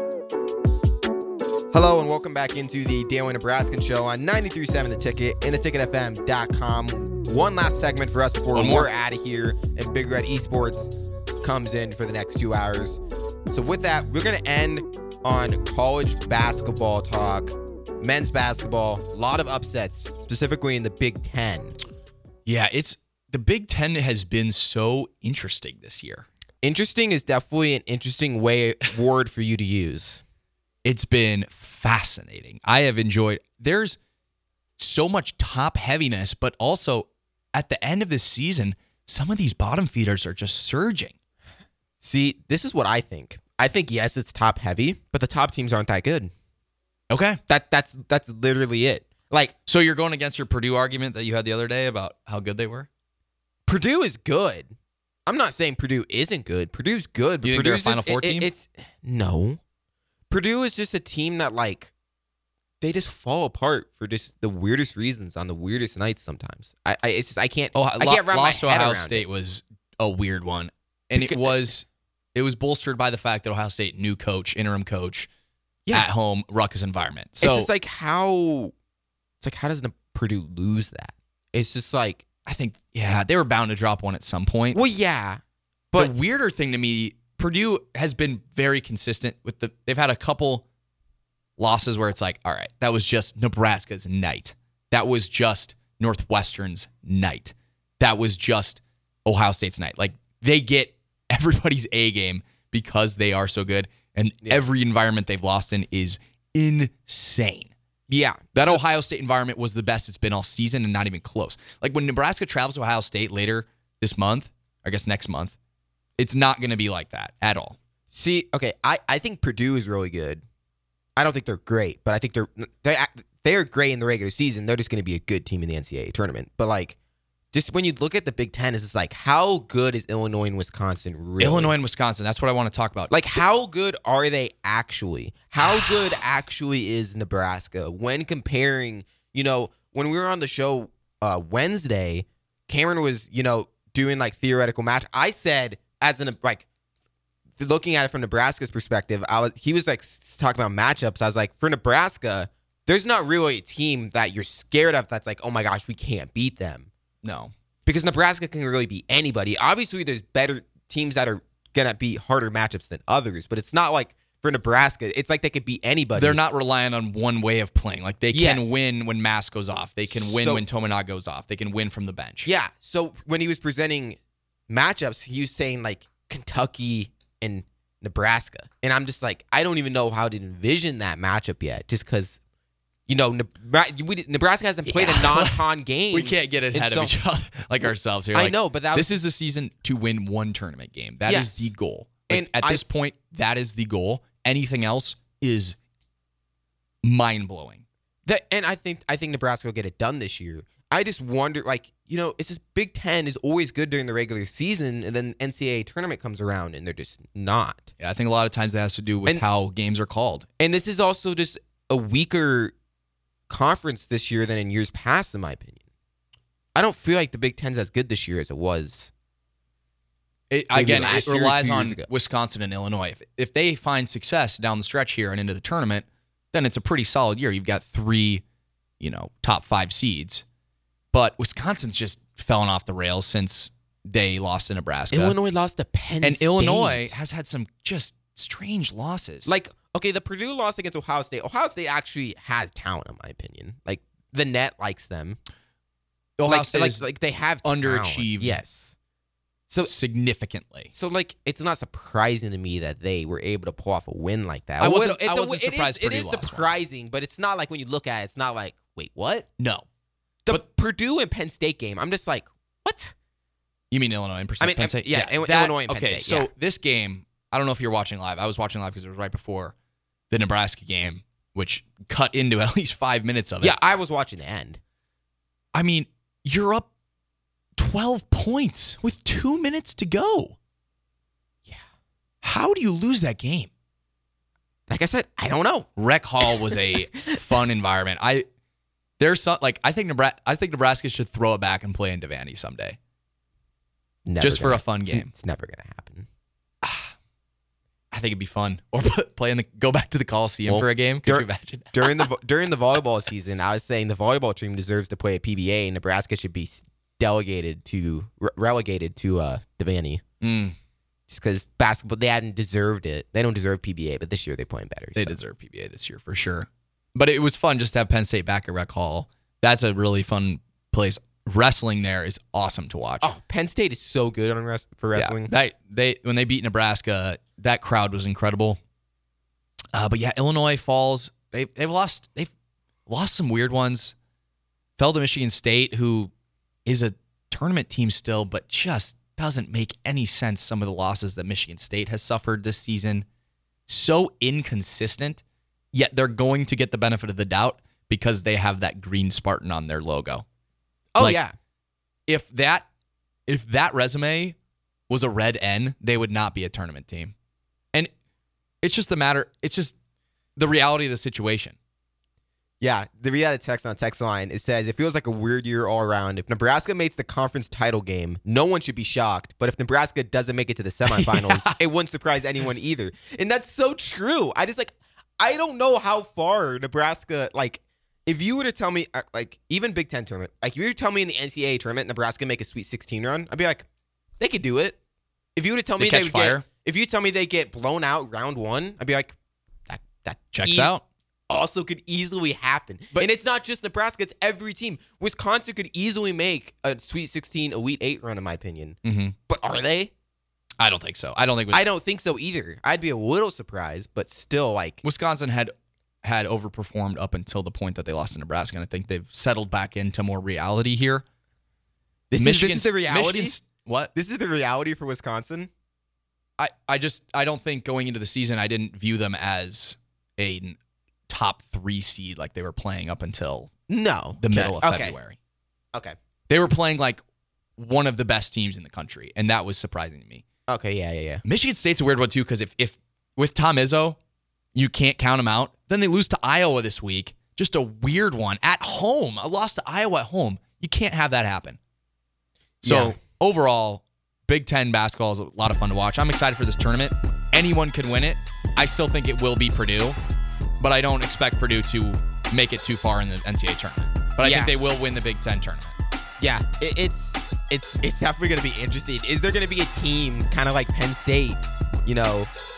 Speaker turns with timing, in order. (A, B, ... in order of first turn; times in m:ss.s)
0:01.7-0:21.8 A
0:08.5-0:08.9 B
0:22.4-0:26.2 B
0:26.6-0:30.2 A
0:30.8-0:34.0 B
0:34.8-0:41.1 B
0:42.0-0:46.3 A
0:47.1-0:47.4 B
0:47.5-0:49.5 A
0:49.7-0:52.9 B
0:53.6-0:54.7 A
0:55.2-0:59.6 A
0:57.4-0:58.5 B
1:00.3-1:01.9 A
1:02.8-1:09.2 A
1:07.7-1:15.3 B
1:11.1-1:11.7 A
1:15.9-1:17.7 B
1:17.4-1:18.7 A
1:19.4-1:22.2 A
1:22.5-1:24.8 B
1:24.7-1:25.4 A
1:26.0-1:30.6 B
1:31.6-1:47.7 B
1:48.1-1:48.8 A
1:48.5-1:55.6 B
1:56.2-1:57.8 B
1:58.1-2:00.4 A
2:01.2-2:07.0 A
2:07.5-2:11.7 A
2:11.4-2:13.3 B
2:13.1-2:26.6 A
2:27.6-2:36.9 A
2:37.2-2:37.5 B
2:37.8-2:46.4 A
2:46.1-2:52.5 B
2:48.3-2:48.8 A
2:50.1-2:50.6 A
2:52.4-2:54.2 A
2:54.7-3:02.4 A
3:03.1-3:07.2 A
3:04.9-3:15.8 B
3:07.8-3:09.1 A
3:11.2-3:11.7 A
3:12.3-3:12.8 A
3:17.0-3:17.8 B
3:18.2-3:27.9 A
3:28.0-3:30.4 B
3:30.6-3:32.7 A
3:33.5-3:35.8 A
3:36.7-3:39.1 A
3:40.5-3:48.4 B
3:40.7-3:42.1 A
3:49.0-3:50.4 B
3:51.1-3:55.4 B
3:55.1-3:57.2 A
3:56.2-3:59.5 B
3:59.4-4:05.4 A
4:06.4-4:07.0 B
4:06.4-4:08.9 A
4:07.6-4:08.6 B
4:09.8-4:10.9 B
4:10.9-4:19.5 A
4:14.8-4:16.7 B
4:19.6-4:19.8 B
4:20.4-4:23.1 A
4:23.9-4:29.7 B
4:24.6-4:26.5 A
4:30.3-4:33.8 B
4:33.6-4:34.8 A
4:35.7-4:36.9 B
4:37.8-4:40.6 B
4:42.4-4:43.7 B
4:44.9-4:45.9 A
4:46.0-4:48.4 B
4:46.4-4:47.4 A
4:49.2-4:53.0 B
4:54.2-4:56.3 A
4:54.4-4:55.3 B
4:56.8-4:57.1 B
4:58.1-5:02.2 B
5:00.6-5:10.2 A
5:10.4-5:10.7 B
5:11.3-5:15.4 A
5:15.2-5:23.3 B
5:23.2-5:25.5 A
5:25.1-5:28.8 B
5:29.9-5:32.5 B
5:33.1-5:34.1 B
5:35.0-5:36.3 B
5:36.8-5:43.2 B
5:43.9-5:45.4 B
5:45.9-5:50.4 B
5:51.1-5:51.5 A
5:52.3-5:52.9 B
5:53.5-5:54.6 B
5:55.1-5:57.3 B
5:58.8-6:00.0 B
6:00.6-6:01.8 B
6:02.8-6:23.8 A
6:11.1-6:11.7 B
6:24.4-6:25.0 A
6:25.6-6:29.3 A
6:26.0-6:26.6 B
6:29.9-6:30.9 A
6:30.5-6:31.0 B
6:31.5-6:40.1 A
6:39.0-6:39.3 B
6:40.8-6:41.8 B
6:41.7-6:45.0 A
6:45.0-6:51.2 B
6:52.3-6:53.6 A
6:52.4-6:54.1 B
6:54.1-6:55.7 A
6:56.6-7:00.8 B
7:01.3-7:03.7 B
7:03.9-7:05.2 A
7:04.4-7:05.4 B
7:06.5-7:07.2 B
7:07.8-7:10.4 B
7:10.7-7:11.4 A
7:11.4-7:14.2 B
7:14.7-7:21.8 B
7:22.8-7:30.2 B
7:22.8-7:23.2 A
7:30.8-7:35.9 B
7:34.4-7:34.7 A
7:36.4-7:42.5 A